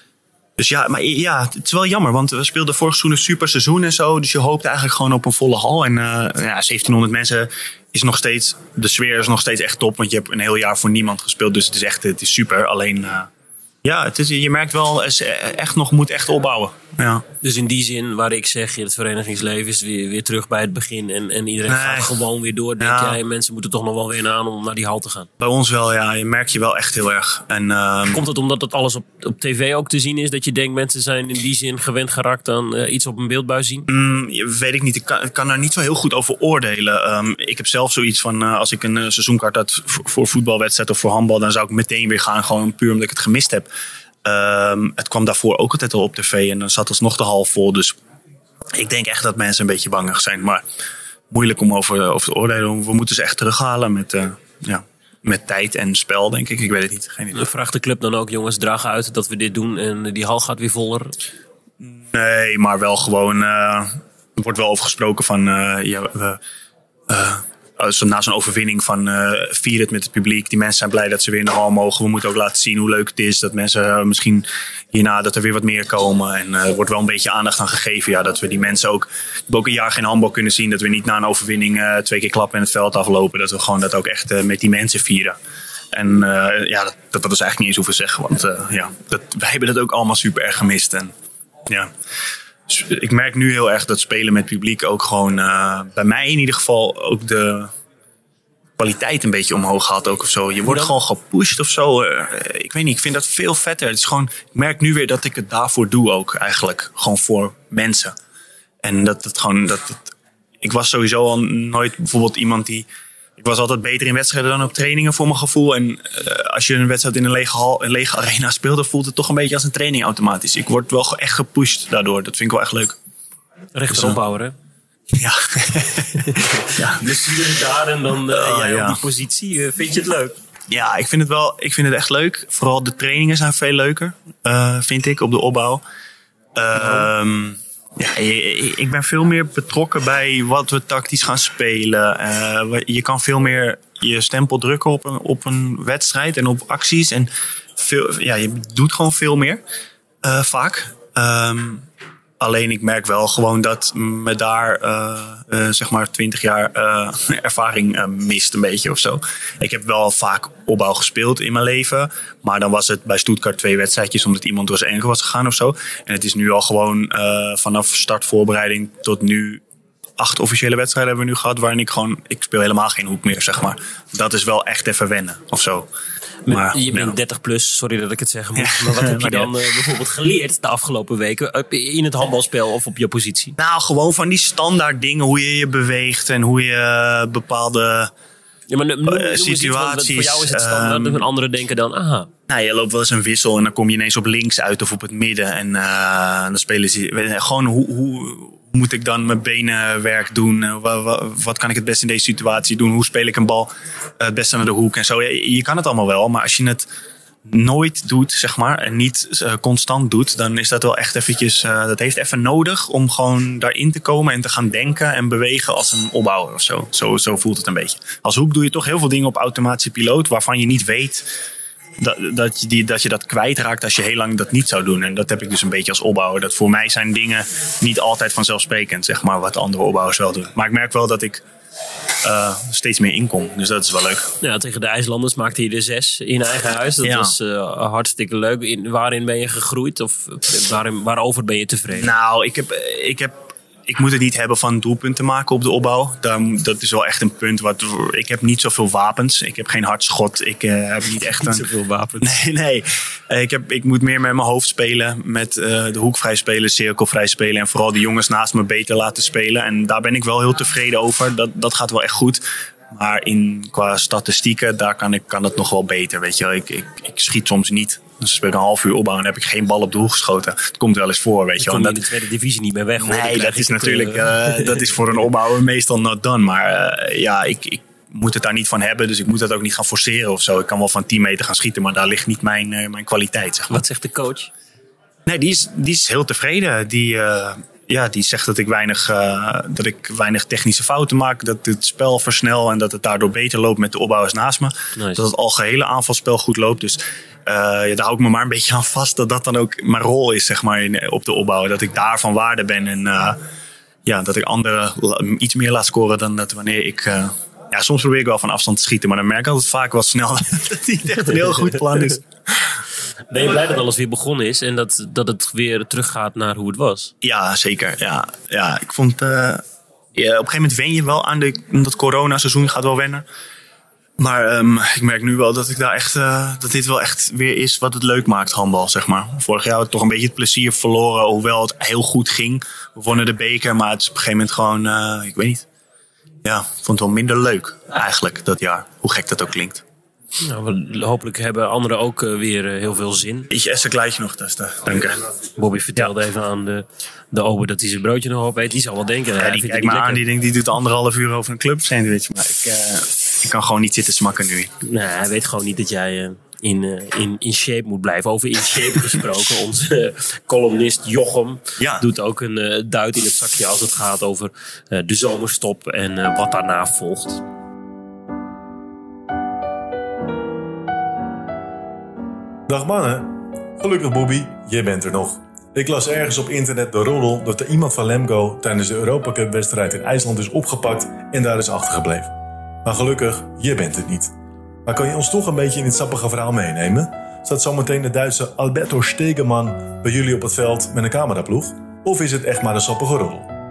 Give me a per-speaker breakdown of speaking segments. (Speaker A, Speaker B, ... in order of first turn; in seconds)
Speaker A: 0.6-13.3, 13.8-17.2, 21.7-22.2, 22.8-23.2, 25.4-28.2, 33.9-43.7, 44.2-48.0, 48.7-50.6, 51.3-57.5, 61.8-66.4, 67.1-85.4, 85.9-91.1, 91.7-91.9, 92.7-97.7, 98.8-108.2, 108.8-123.0, 123.9-124.2, 125.1-126.2, 126.8-127.1, 128.3-129.0, 130.7-135.8, 136.6-149.6, 150.2-151.9, 152.4-169.6, 170.2-175.9, 176.5-177.2, 178.6-179.5, 183.6-188.1, 189.1-191.2, 192.5-206.9, 207.5-221.3, 222.0-231.4, 232.2-234.3, 237.0-237.3, 241.9-251.7, 252.2-272.0, 273.0-283.8, 285.3-303.4, 304.1-312.8, 317.2-319.6, 320.1-323.2, 324.2-335.7, 336.4-339.8, 343.5-345.2, 349.4-354.7, 361.8-362.1
Speaker B: 17.4-25.3, 28.1-33.9, 57.3-61.1, 100.7-100.9, 123.8-124.5, 126.1-130.3, 136.8-137.1, 176.5-183.6, 188.7-192.3, 234.4-242.1, 251.3-252.4, 271.6-275.0, 283.7-284.5, 295.0-295.2, 313.3-317.1, 340.4-343.5, 345.6-350.2, 354.8-367.4
Speaker C: 372.7-384.3, 384.9-393.5